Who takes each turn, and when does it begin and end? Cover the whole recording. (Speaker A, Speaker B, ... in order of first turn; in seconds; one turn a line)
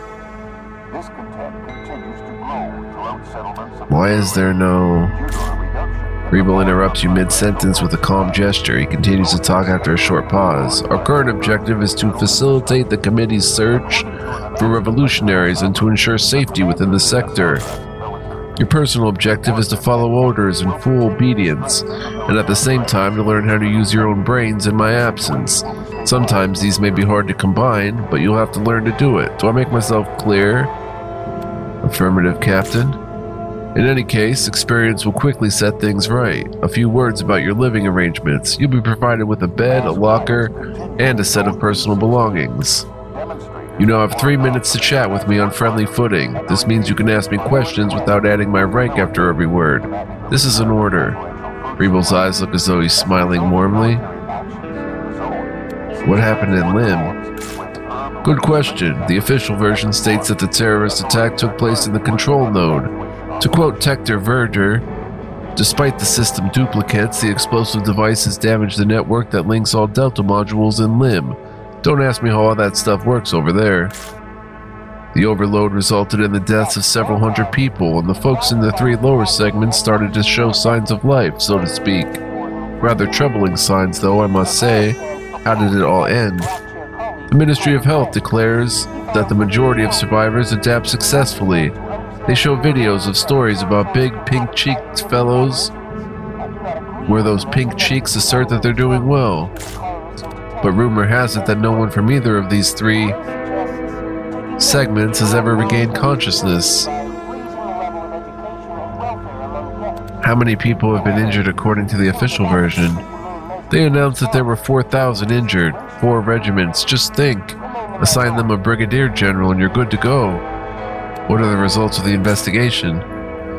Speaker A: 0.9-8.5
Speaker B: 3.9-5.1
Speaker B: 6.3-17.6
Speaker A: 9.2-12.9
Speaker A: 13.7-18.6
Speaker B: 18.6-30.7
Speaker A: 19.3-24.2
Speaker A: 24.8-27.3
Speaker B: 31.8-33.0
Speaker B: 33.7-42.9
Speaker A: 39.6-59.2
Speaker B: 43.8-51.2
Speaker B: 51.8-54.0
Speaker B: 56.0-57.1
Speaker B: 58.2-64.8
Speaker A: 59.7-63.7
Speaker B: 65.5-73.9
Speaker B: 75.1-82.2
Speaker A: 76.5-88.3
Speaker B: 82.8-86.5
Speaker B: 87.3-91.7
Speaker A: 88.9-102.2
Speaker B: 92.3-95.7
Speaker B: 97.0-99.5
Speaker B: 100.6-103.2
Speaker A: 102.8-110.2
Speaker B: 104.6-106.9
Speaker B: 110.2-113.0
Speaker A: 110.9-116.9
Speaker B: 113.7-120.4
Speaker A: 117.6-118.6
Speaker B: 121.3-123.0